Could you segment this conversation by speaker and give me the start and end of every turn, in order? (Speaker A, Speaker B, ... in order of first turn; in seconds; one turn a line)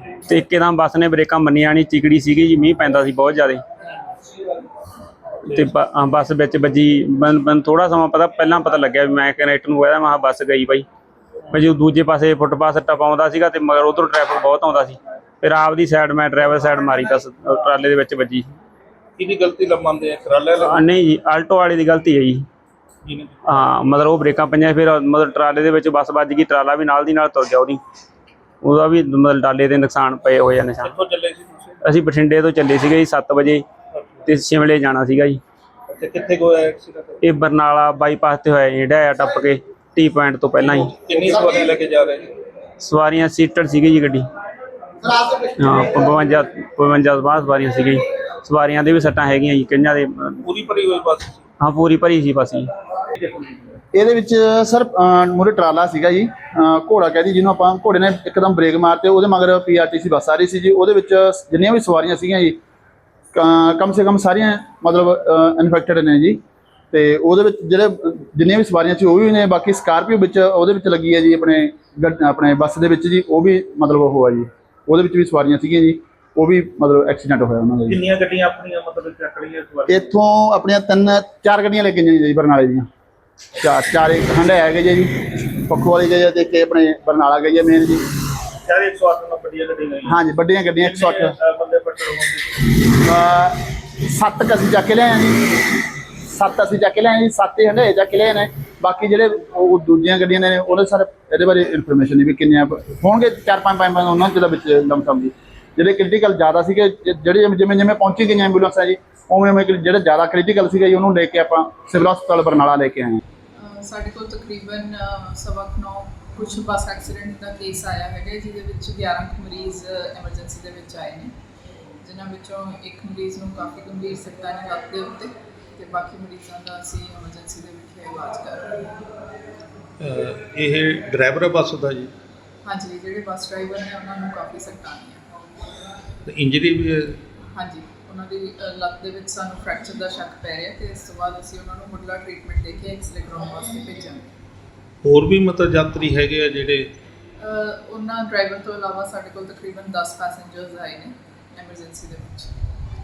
Speaker A: 0.2-3.6
Speaker A: 5.4-10.9
Speaker A: 11.5-18.5
Speaker B: 19.2-20.8
Speaker A: 20.6-22.4
Speaker B: 23.1-23.6
Speaker A: 23.5-27.8
Speaker A: 28.6-30.9
Speaker B: 30.8-31.8
Speaker A: 31.8-33.6
Speaker A: 34.3-35.4
Speaker B: 35.9-37.2
Speaker A: 37.2-41.0
Speaker B: 40.9-42.4
Speaker A: 42.8-44.2
Speaker C: 45.0-45.9
Speaker A: 45.6-50.4
Speaker B: 50.4-51.4
Speaker A: 51.6-52.7
Speaker B: 53.2-53.8
Speaker C: 53.9-62.6
Speaker C: 63.3-66.4
Speaker C: 66.9-78.0
Speaker B: 77.9-80.1
Speaker C: 79.9-82.9
Speaker C: 83.6-88.0
Speaker B: 88.7-90.2
Speaker C: 90.0-91.3
Speaker B: 90.8-92.7
Speaker C: 92.8-95.6
Speaker C: 96.2-113.2
Speaker D: 113.6-121.3
Speaker D: 122.0-128.9
Speaker B: 130.0-132.1
Speaker D: 132.7-135.7
Speaker B: 136.3-137.2
Speaker D: 137.6-144.3
Speaker B: 145.0-146.9
Speaker D: 147.4-152.5